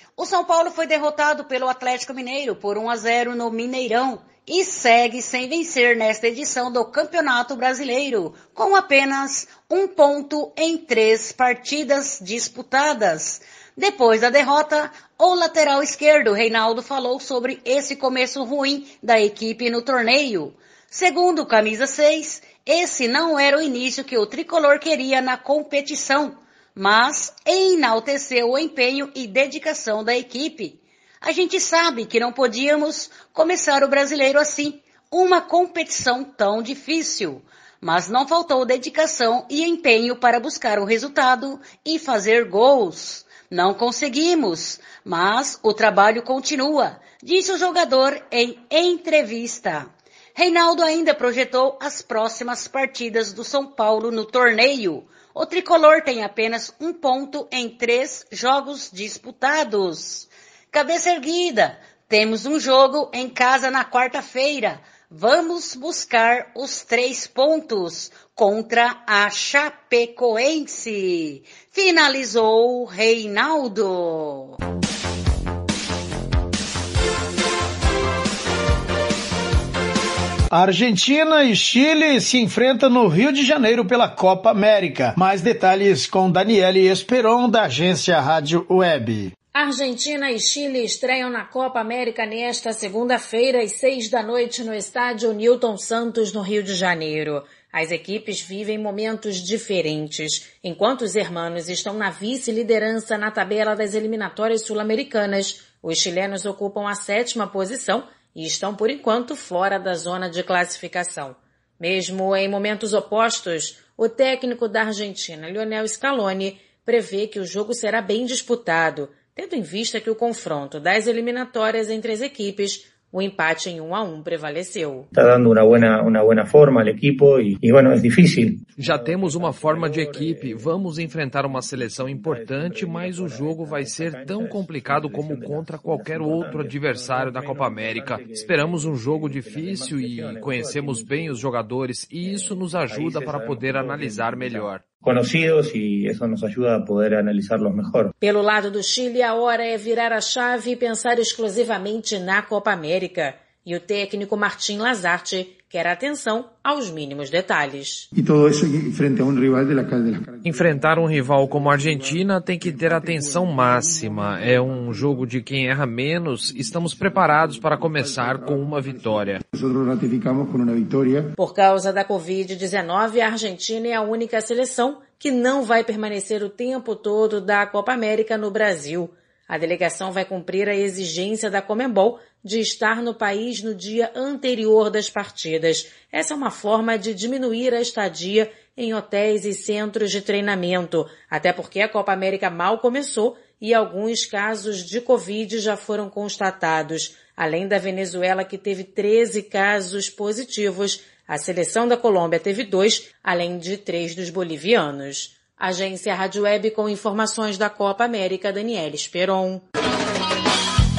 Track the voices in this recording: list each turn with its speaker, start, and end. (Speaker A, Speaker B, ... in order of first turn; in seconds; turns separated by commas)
Speaker A: 0.2-74.5, Speaker B: 80.5-89.3, Speaker C: 89.5-125.1, Speaker D: 125.1-129.9, Speaker E: 128.8-144.8, Speaker D: 134.2-135.3, Speaker D: 135.9-136.6, Speaker D: 137.3-138.8, Speaker D: 139.7-141.1, Speaker D: 142.9-144.5, Speaker D: 145.0-148.1, Speaker C: 148.2-158.1, Speaker F: 158.1-165.0, Speaker E: 160.4-169.4, Speaker F: 167.8-171.3, Speaker C: 171.4-209.6